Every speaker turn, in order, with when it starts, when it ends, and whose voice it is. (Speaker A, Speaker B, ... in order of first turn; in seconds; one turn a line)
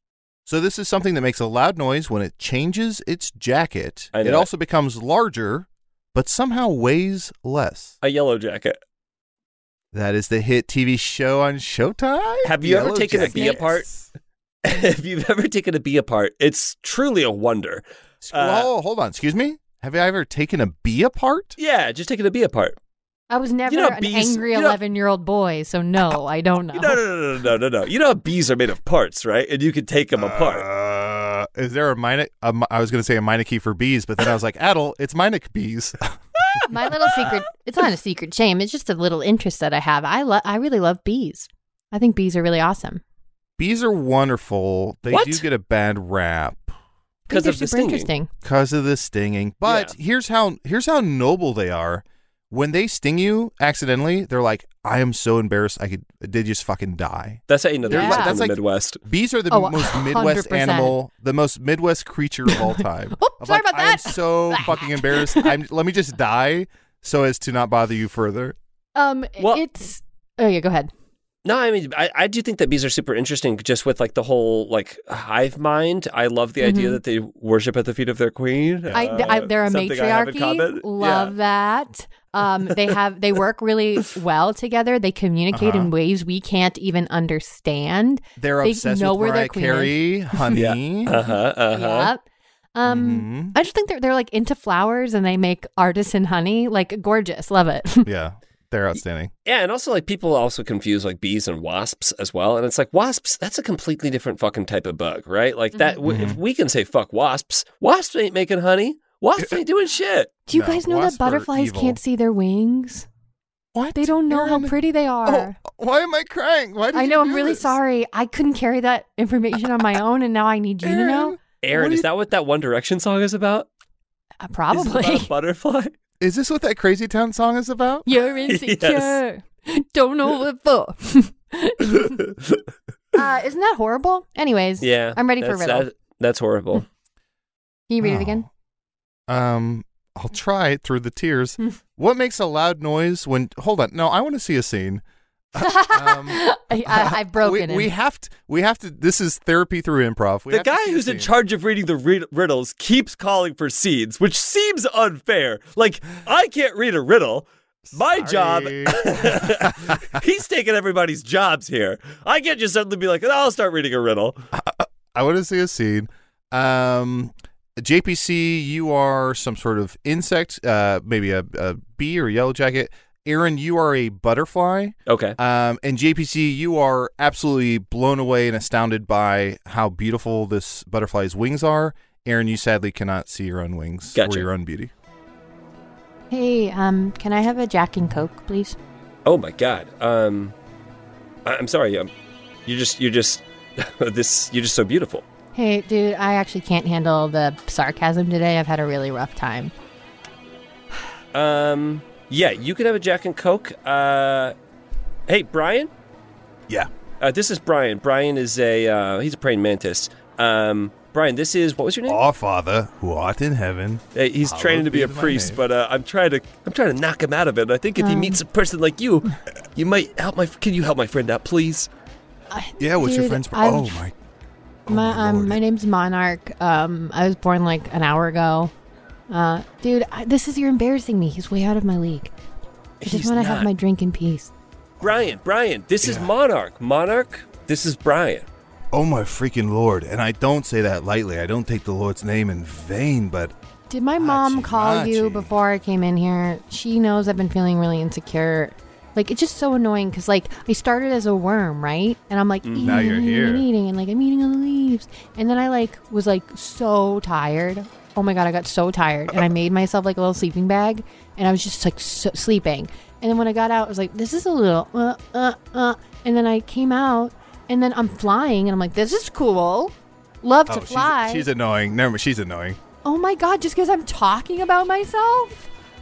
Speaker A: 0.5-7.9
Speaker B: 4.1-4.5
Speaker B: 8.0-8.8
Speaker A: 9.9-14.1
Speaker B: 12.4-13.9
Speaker C: 13.2-13.6
Speaker B: 14.6-18.7
Speaker A: 18.2-21.5
Speaker B: 21.6-22.8
Speaker C: 23.3-27.0
Speaker B: 23.7-24.8
Speaker B: 26.7-30.6
Speaker A: 30.1-37.3
Speaker C: 36.7-43.0
Speaker A: 43.6-46.7
Speaker B: 45.1-45.5
Speaker C: 47.3-48.3
Speaker B: 47.3-48.1
Speaker A: 48.4-68.5
Speaker B: 49.6-49.9
Speaker B: 57.5-59.0
Speaker C: 57.9-58.4
Speaker C: 59.5-61.0
Speaker C: 62.5-65.5
Speaker C: 69.0-70.9
Speaker B: 71.4-81.3
Speaker C: 76.6-77.0
Speaker A: 78.9-79.3
Speaker C: 78.9-90.6
Speaker A: 85.5-85.9
Speaker A: 88.4-91.1
Speaker B: 90.5-92.1
Speaker C: 91.1-92.2
Speaker C: 92.7-98.1
Speaker A: 92.8-93.5
Speaker A: 98.0-99.3
Speaker B: 99.5-110.3
Speaker A: 106.0-106.4
Speaker C: 110.5-113.1
Speaker A: 110.5-112.0
Speaker A: 113.7-117.8
Speaker C: 114.0-115.6
Speaker C: 116.9-121.4
Speaker A: 120.8-122.1
Speaker B: 121.6-123.7
Speaker C: 124.4-125.3
Speaker B: 124.7-125.9
Speaker A: 126.2-128.1
Speaker C: 128.1-132.2
Speaker B: 128.5-129.2
Speaker B: 132.2-132.6
Speaker C: 133.1-135.8
Speaker B: 134.8-136.8
Speaker C: 137.9-138.5
Speaker A: 138.0-138.4
Speaker A: 139.3-145.0
Speaker A: 145.5-151.3
Speaker C: 145.6-147.9
Speaker B: 150.5-164.4
Speaker A: 157.9-160.0
Speaker A: 164.5-184.9
Speaker B: 175.1-175.4
Speaker B: 184.1-184.5
Speaker C: 186.3-188.8
Speaker B: 189.2-190.5
Speaker B: 191.4-192.1
Speaker B: 192.7-195.2
Speaker C: 195.5-199.7
Speaker B: 201.3-204.5
Speaker B: 205.3-205.9
Speaker B: 207.2-212.2
Speaker A: 212.1-215.6
Speaker B: 214.1-221.9
Speaker C: 218.0-218.4
Speaker C: 222.5-224.0
Speaker A: 222.8-224.1
Speaker A: 224.9-225.6
Speaker C: 224.9-228.7
Speaker C: 229.3-232.3
Speaker B: 233.0-233.7
Speaker C: 233.0-234.5
Speaker A: 235.0-235.3
Speaker B: 235.0-238.5
Speaker A: 236.0-236.3
Speaker A: 238.9-243.5
Speaker C: 243.9-271.4
Speaker A: 244.2-245.5
Speaker B: 252.6-253.1
Speaker A: 252.8-253.7
Speaker A: 270.7-272.8
Speaker C: 273.0-275.7